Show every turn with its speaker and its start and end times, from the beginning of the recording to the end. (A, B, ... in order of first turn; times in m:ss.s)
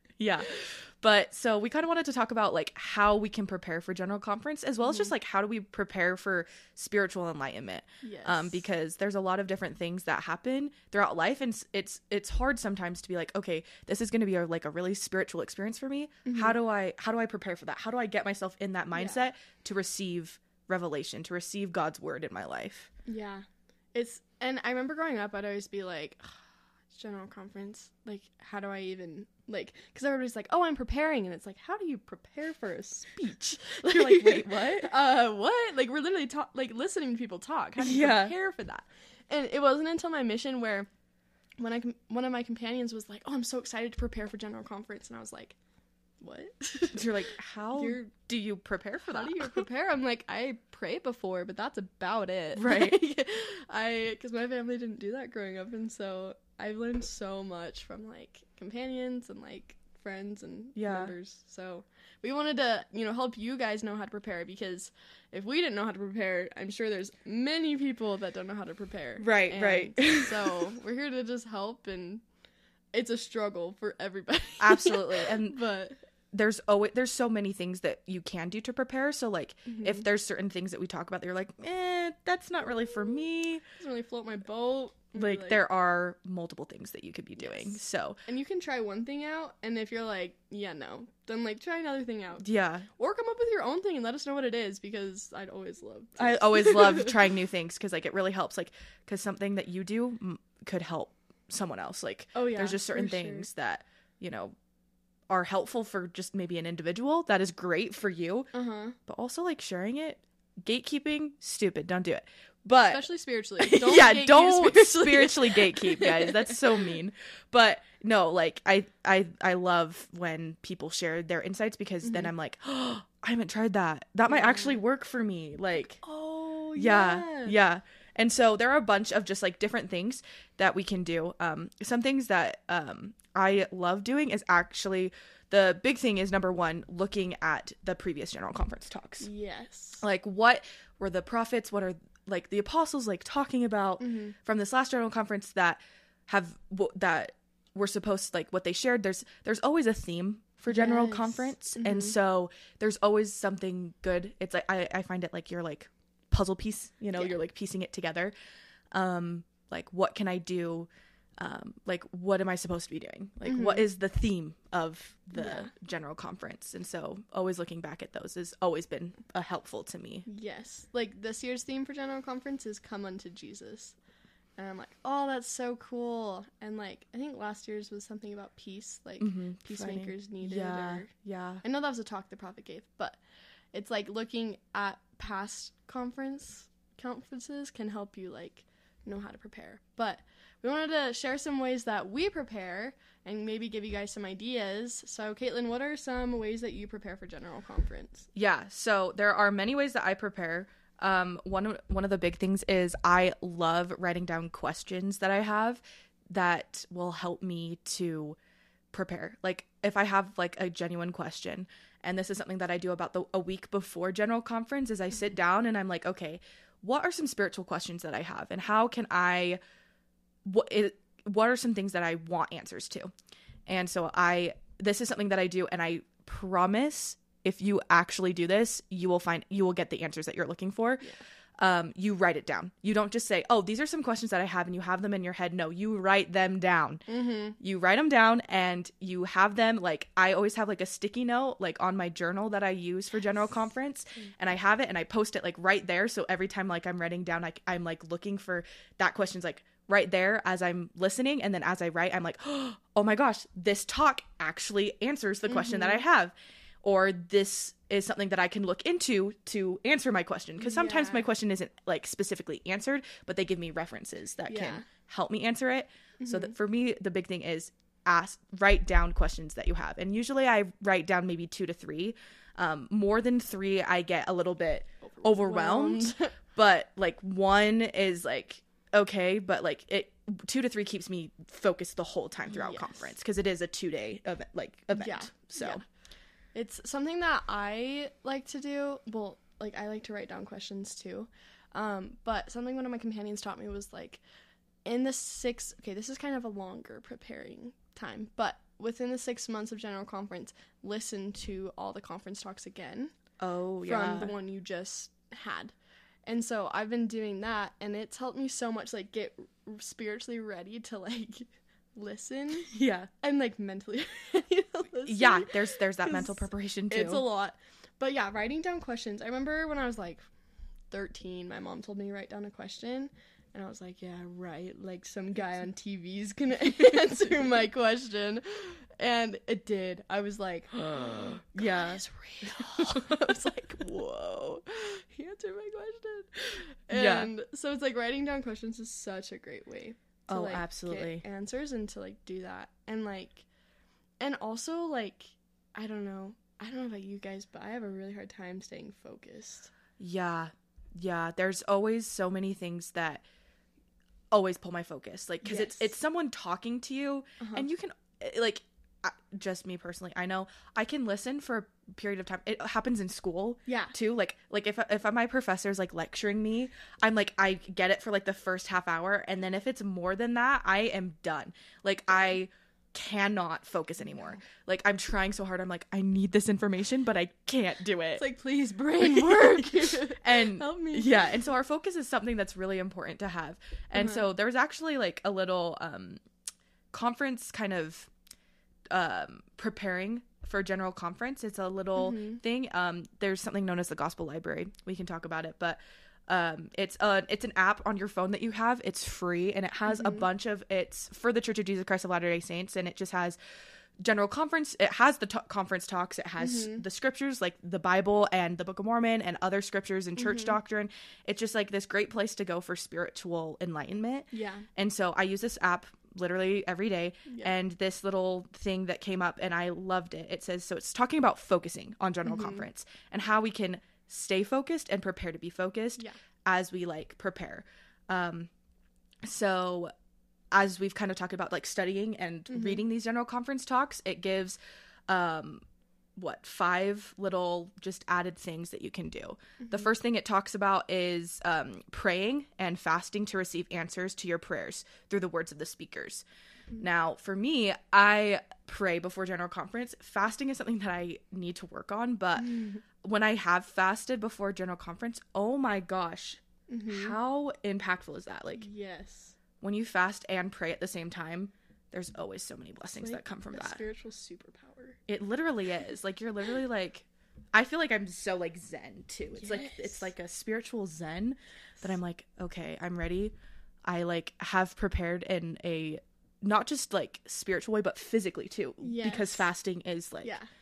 0:00.2-0:22.9 A
0:04.8-0:05.1 B
0:08.0-0:08.6 B
0:16.2-0:16.6 B
0:19.0-0:19.2 B
0:23.1-0:40.9 B
0:33.6-0:34.9 A
0:37.8-0:38.3 A
0:41.6-0:45.6 B
0:46.2-0:48.1 B
0:46.9-0:49.6 A
0:49.1-1:12.2 B
0:52.6-0:53.0 A
1:00.8-1:01.1 A
1:09.2-1:10.5 A
1:12.9-1:16.0 B
1:14.6-1:15.6 A
1:16.3-1:23.6 A
1:19.7-1:20.0 B
1:23.8-1:25.6 B
1:25.2-1:28.2 A
1:27.4-1:37.2 B
1:32.4-1:32.9 A
1:36.2-1:44.6 A
1:42.3-1:43.5 B
1:45.3-1:48.5 A
1:48.5-1:49.0 B
1:49.1-1:53.0 A
1:52.9-1:56.9 B
1:53.6-2:06.0 A
2:02.0-2:02.3 B
2:04.3-2:04.8 B
2:06.0-2:07.6 B
2:06.8-2:19.3 A
2:19.2-2:20.0 B
2:20.0-2:38.3 A
2:24.0-2:24.4 B
2:30.7-2:32.2 B
2:38.9-2:50.3 A
2:43.4-2:43.9 B
2:45.3-2:45.7 B
2:50.3-2:54.0 B
2:54.6-3:01.1 B
2:59.2-3:01.6 A
3:01.6-3:03.2 B
3:03.7-3:18.3 B
3:18.4-3:28.4 A
3:28.9-3:39.6 A
3:40.4-3:43.1 A
3:43.7-3:51.0 A
3:51.6-3:57.0 A
3:57.1-3:57.6 B
3:57.6-4:45.8 A
4:15.5-4:16.0 B
4:20.6-4:21.3 B
4:24.5-4:24.9 B
4:26.2-4:26.5 B
4:35.0-4:36.3 B
4:42.5-4:43.1 B
4:44.9-4:45.8 B
4:46.5-4:54.2 B
4:54.8-5:03.1 B
5:03.4-5:04.3 A
5:03.8-5:05.8 B
5:06.3-5:20.2 B
5:12.7-5:13.1 A
5:15.1-5:17.2 A
5:20.9-5:43.5 B
5:30.7-5:33.4 A
5:36.9-5:37.3 A
5:40.3-5:41.2 A
5:44.2-5:49.7 B
5:50.0-5:53.2 A
5:54.3-6:18.2 A
5:55.4-5:55.8 B
5:57.4-5:57.7 B
6:03.7-6:03.9 B
6:14.0-6:14.4 B
6:18.2-6:21.2 B
6:19.0-6:26.2 A
6:24.0-6:24.3 B
6:26.9-6:28.1 A
6:28.9-6:43.4 A
6:32.0-6:32.4 B
6:39.9-6:40.2 B
6:44.0-7:08.5 A
6:46.4-6:46.8 B
6:50.2-6:50.6 B
6:54.3-6:54.7 B
6:57.3-6:57.5 B
7:02.2-7:02.7 B
7:09.2-7:09.9 A
7:10.5-7:15.6 A
7:12.5-7:12.8 B
7:16.2-7:26.2 A
7:26.8-7:38.7 A
7:32.4-7:32.8 B
7:36.7-7:37.2 B
7:38.5-7:39.4 B
7:39.6-7:43.8 A
7:43.0-7:45.0 B
7:45.1-7:53.3 A
7:49.4-7:50.1 B
7:53.9-8:00.3 A
7:58.8-7:59.5 B
8:00.2-8:00.5 B